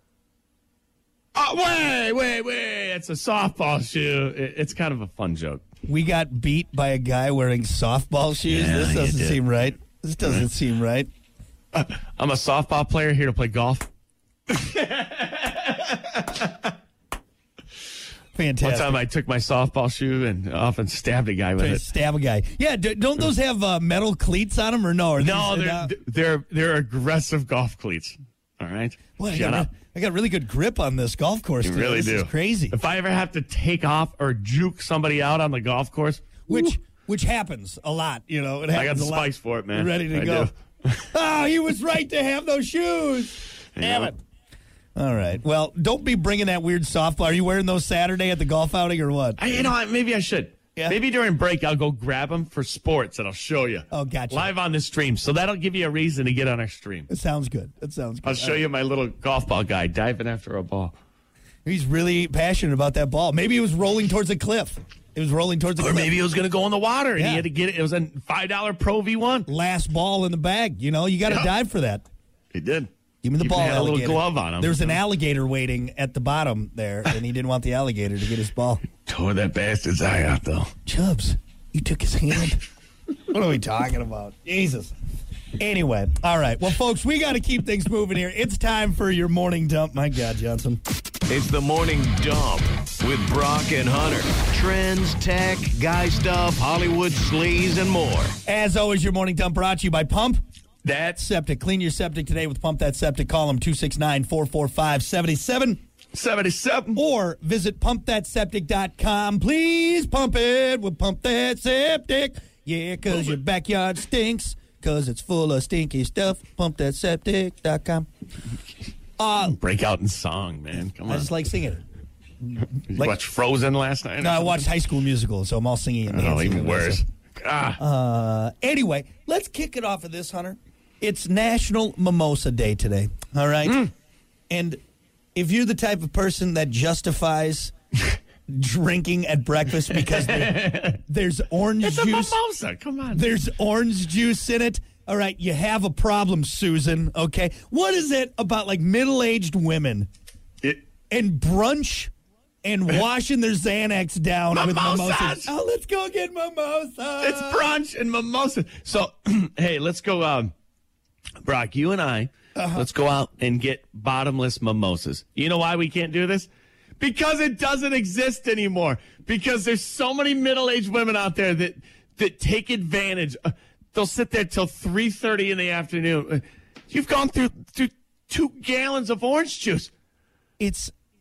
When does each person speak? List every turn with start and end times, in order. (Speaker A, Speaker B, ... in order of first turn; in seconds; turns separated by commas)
Speaker A: 1.3-5.6, Speaker B: 5.8-11.1, Speaker A: 8.5-9.5, Speaker A: 11.7-13.9, Speaker A: 14.5-16.7, Speaker B: 18.3-19.0, Speaker A: 18.6-21.8, Speaker B: 21.6-25.9, Speaker A: 25.2-29.7, Speaker B: 29.2-32.7, Speaker A: 31.6-36.7, Speaker B: 36.5-40.5, Speaker A: 38.7-41.1, Speaker B: 41.1-44.1, Speaker A: 43.8-44.1, Speaker B: 44.9-49.7, Speaker A: 49.4-57.1, Speaker B: 53.9-54.5, Speaker B: 57.1-58.6, Speaker A: 58.2-60.9, Speaker B: 61.6-66.2, Speaker A: 65.8-69.5, Speaker B: 67.2-67.5, Speaker B: 69.5-72.0, Speaker A: 72.5-75.0, Speaker B: 73.2-78.8, Speaker A: 78.9-80.7, Speaker B: 80.8-82.6, Speaker B: 83.3-84.9, Speaker B: 85.6-90.8, Speaker C: 91.3-98.3, Speaker B: 98.5-100.4, Speaker A: 100.8-101.2, Speaker B: 101.1-105.8, Speaker A: 106.1-107.0, Speaker B: 106.9-118.1, Speaker B: 119.2-119.6, Speaker A: 119.4-121.3, Speaker B: 121.0-121.8, Speaker A: 122.8-124.7, Speaker B: 124.2-127.0, Speaker A: 126.0-127.8, Speaker B: 127.8-133.9, Speaker B: 134.5-134.8, Speaker B: 135.3-137.7, Speaker B: 138.5-142.3, Speaker A: 139.9-141.0, Speaker A: 141.8-143.3, Speaker B: 143.1-150.1, Speaker B: 151.1-152.1, Speaker B: 152.6-157.6, Speaker A: 154.5-155.5, Speaker A: 157.2-160.5, Speaker A: 161.4-166.5, Speaker B: 162.5-162.9, Speaker A: 167.0-179.9, Speaker B: 180.6-180.9